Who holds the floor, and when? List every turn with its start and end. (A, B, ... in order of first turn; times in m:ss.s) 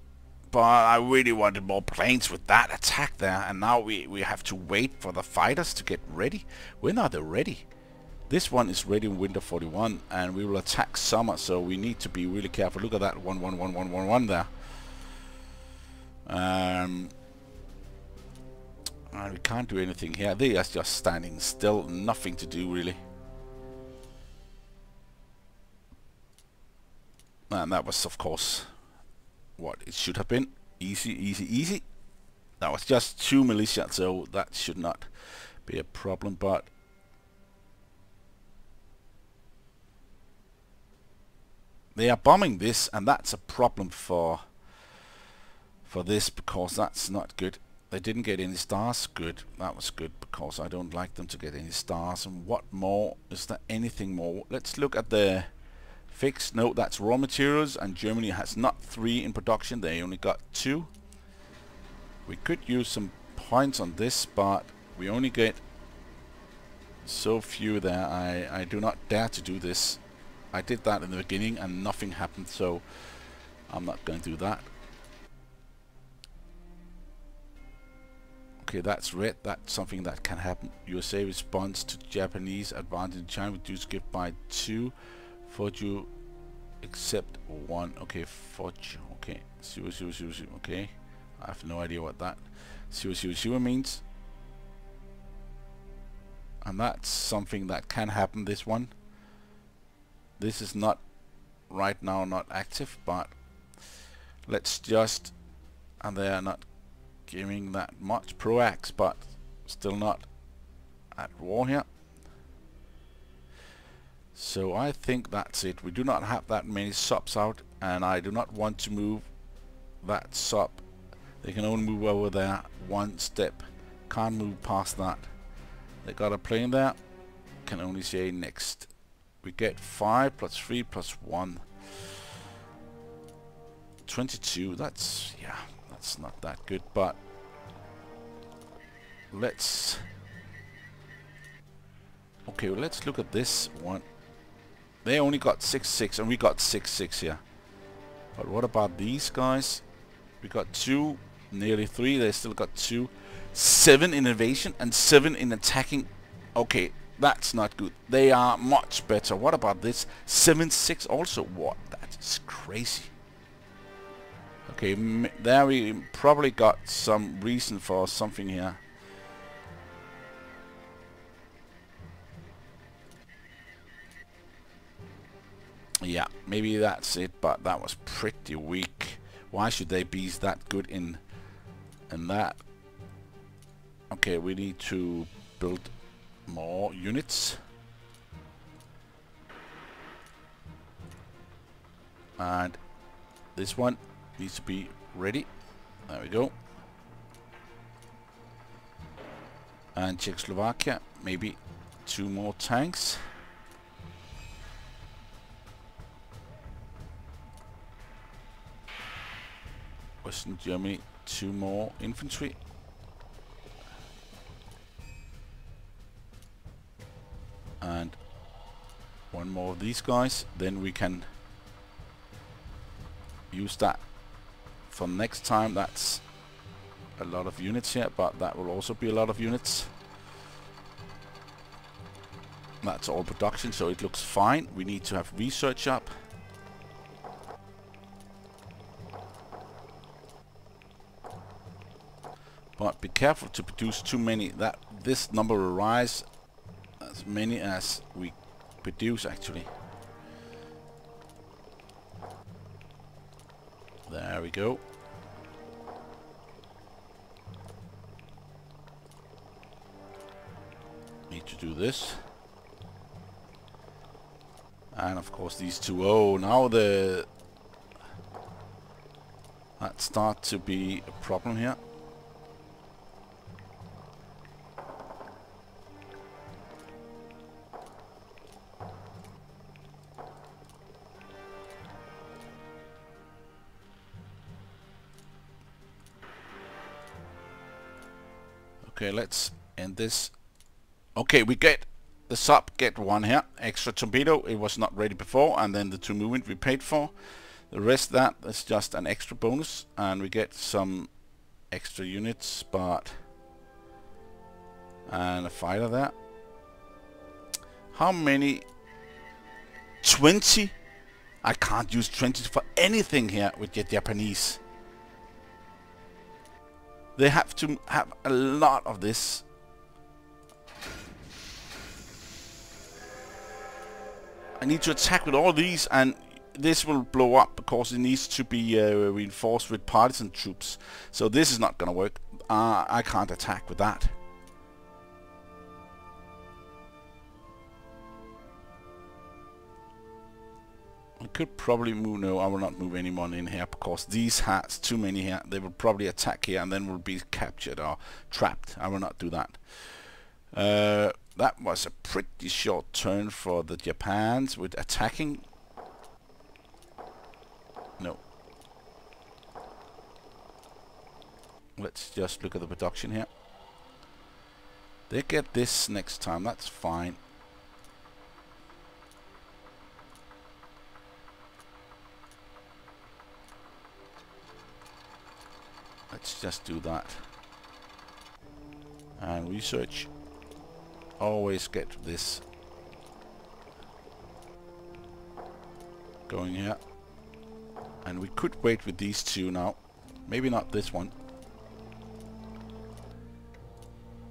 0:00.5-0:07.7 A
0:08.3-0:14.8 A
0:16.2-0:17.1 A
0:19.1-0:23.0 A
0:27.5-0:28.7 A
0:29.6-0:31.8 A
0:32.6-0:36.7 A
0:42.0-0:44.4 A
0:45.8-0:55.5 A
0:56.1-1:00.9 A
1:02.3-1:05.6 A
1:07.0-1:10.0 A
1:10.5-1:14.7 A
1:18.6-1:26.1 A
1:26.8-1:34.0 A
1:36.6-1:38.9 A
1:40.4-1:41.0 A
1:41.7-1:43.3 A
1:44.5-1:45.3 A
1:46.0-1:46.7 A
1:47.3-1:50.3 A
1:51.1-1:51.9 A
1:54.3-1:59.3 A
2:00.0-2:00.8 A
2:01.4-2:05.3 A
2:06.0-2:07.0 A
2:07.7-2:08.9 A
2:09.4-2:11.7 A
2:14.1-2:17.2 A
2:19.3-2:20.1 A
2:22.5-2:24.1 A
2:25.0-2:27.4 A
2:28.4-2:29.8 A
2:30.4-2:43.1 A
2:44.7-2:48.8 A
2:56.0-3:01.2 A
3:02.1-3:02.6 A
3:04.1-3:05.9 A
3:06.5-3:07.6 A
3:12.4-3:12.8 A
3:13.6-3:15.5 A
3:16.1-3:16.6 A
3:20.0-3:23.2 A
3:30.2-3:32.6 A
3:37.8-3:38.2 A
3:39.3-3:41.3 A
3:43.5-3:44.0 A
3:44.9-3:46.2 A
3:47.2-3:49.9 A
3:52.8-3:56.1 A
4:02.8-4:06.2 A
4:07.0-4:09.7 A
4:14.1-4:14.8 A
4:21.3-4:22.2 A
4:24.9-4:27.3 A
4:29.8-4:31.8 A
4:48.8-4:50.3 A
4:51.2-4:57.1 A
4:57.7-5:01.1 A
5:01.7-5:03.1 A
5:05.1-5:06.2 A
5:07.9-5:08.7 A
5:10.0-5:10.8 A
5:11.4-5:14.6 A
5:17.2-5:19.4 A
5:24.6-5:34.2 A
5:41.2-5:55.4 A
6:01.8-6:03.3 A
6:05.1-6:07.2 A
6:16.1-6:17.2 A
6:19.2-6:20.1 A
6:21.2-6:22.4 A
6:26.3-6:26.8 A
6:28.0-6:31.1 A